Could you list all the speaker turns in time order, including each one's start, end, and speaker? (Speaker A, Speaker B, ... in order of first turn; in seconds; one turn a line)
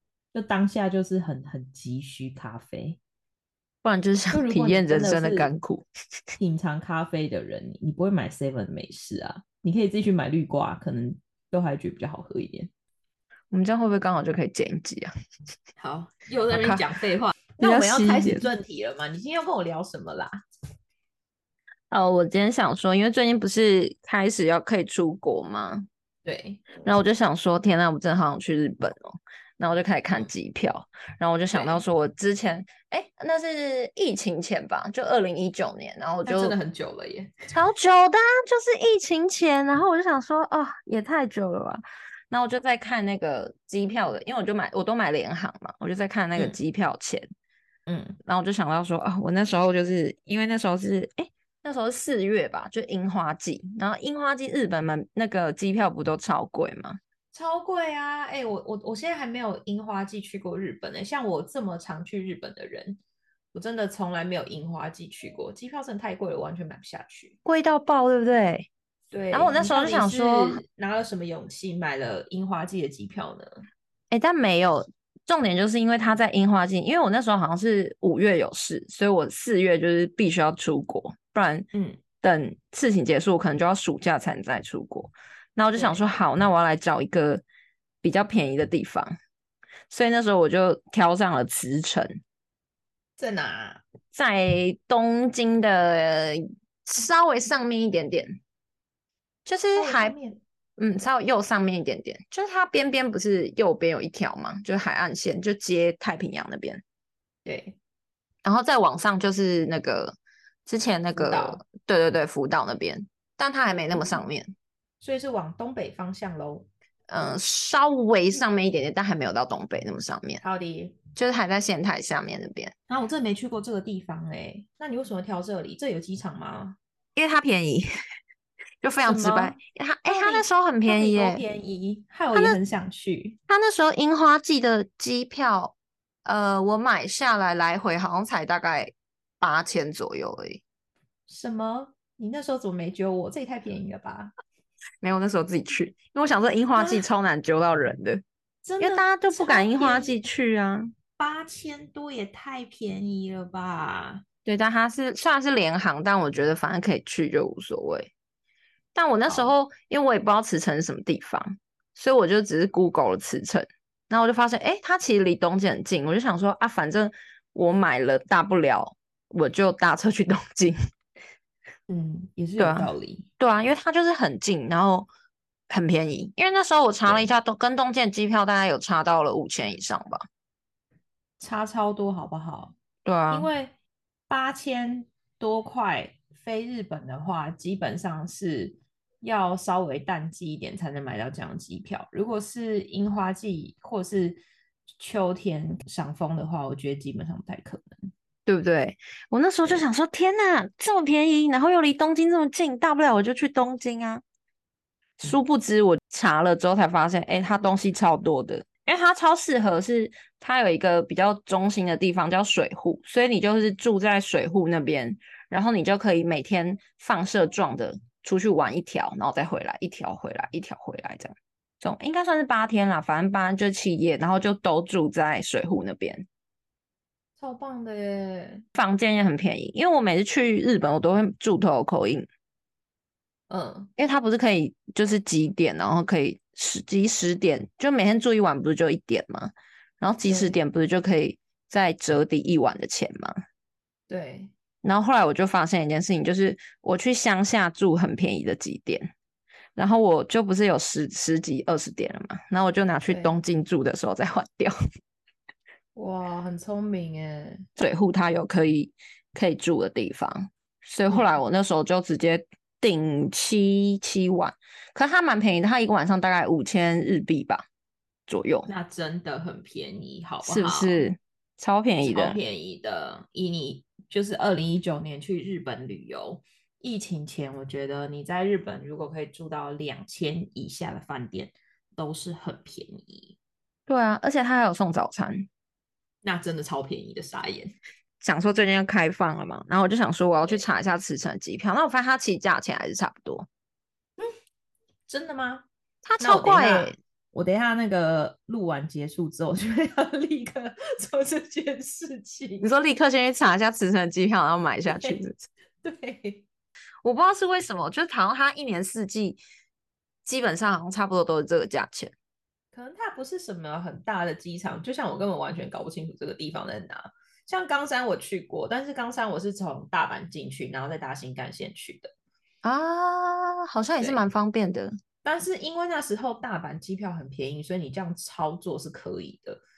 Speaker A: 0.3-3.0
Speaker B: 3.8-5.8
Speaker A: 4.3-5.5
Speaker A: 6.4-12.7
Speaker B: 13.5-15.1
Speaker A: 15.8-20.3
Speaker B: 16.5-16.8
Speaker B: 17.6-18.5
Speaker B: 21.9-25.9
Speaker A: 26.2-26.8
Speaker B: 26.8-36.5
Speaker A: 31.5-31.8
Speaker A: 36.2-37.3
Speaker B: 37.5-47.2
Speaker A: 47.9-48.2
Speaker B: 48.2-57.0
Speaker A: 57.3-63.0
Speaker A: 63.5-67.3
Speaker B: 67.4-68.7
Speaker A: 69.1-73.6
Speaker B: 69.3-70.6
Speaker B: 74.1-81.7
Speaker A: 81.7-82.0
Speaker B: 82.2-87.4
Speaker A: 85.7-86.1
Speaker B: 88.0-89.1
Speaker B: 89.9-92.1
Speaker A: 93.2-93.8
Speaker B: 94.1-98.4
Speaker B: 99.5-100.1
Speaker A: 99.8-100.4
Speaker B: 100.8-106.8
Speaker A: 107.4-107.8
Speaker B: 108.4-110.1
Speaker B: 110.7-114.5
Speaker A: 111.1-111.6
Speaker A: 113.9-114.2
Speaker A: 115.0-116.7
Speaker B: 117.1-120.4
Speaker A: 120.4-121.0
Speaker B: 121.2-122.7
Speaker A: 122.9-126.8
Speaker B: 127.2-127.9
Speaker B: 128.8-131.4
Speaker A: 129.0-133.4
Speaker B: 133.5-140.6
Speaker A: 141.3-144.3
Speaker B: 145.0-148.2
Speaker A: 146.7-147.0
Speaker A: 148.6-150.2
Speaker B: 148.8-150.9
Speaker A: 151.2-154.2
Speaker B: 154.4-158.1
Speaker B: 158.9-170.8
Speaker A: 159.3-159.5
Speaker A: 171.9-173.3
Speaker B: 172.6-175.1
Speaker B: 175.7-180.2
Speaker A: 181.4-182.7
Speaker B: 183.0-183.5
Speaker A: 183.3-183.7
Speaker A: 184.3-194.4
Speaker A: 195.0-198.1
Speaker B: 198.4-204.2
Speaker B: 205.2-226.2
Speaker A: 227.4-228.6
Speaker B: 228.7-232.3
Speaker A: 233.5-233.9
Speaker B: 234.0-243.3
Speaker A: 240.2-240.6
Speaker A: 244.1-244.5
Speaker B: 244.8-249.1
Speaker B: 249.8-254.7
Speaker A: 253.1-253.3
Speaker A: 255.9-257.6
Speaker B: 257.8-267.6
Speaker A: 261.1-261.4
Speaker B: 268.3-268.7
Speaker A: 268.7-271.0
Speaker B: 270.4-272.4
Speaker A: 272.0-283.4
Speaker B: 283.9-285.5
Speaker A: 286.2-287.7
Speaker B: 288.2-293.5
Speaker A: 295.1-295.6
Speaker B: 296.0-296.9
Speaker A: 296.2-302.7
Speaker B: 302.6-305.4
Speaker A: 304.9-305.2
Speaker A: 305.8-306.4
Speaker B: 307.0-309.4
Speaker B: 310.2-312.1
Speaker A: 312.7-322.1
Speaker B: 322.6-324.9
Speaker A: 325.2-329.6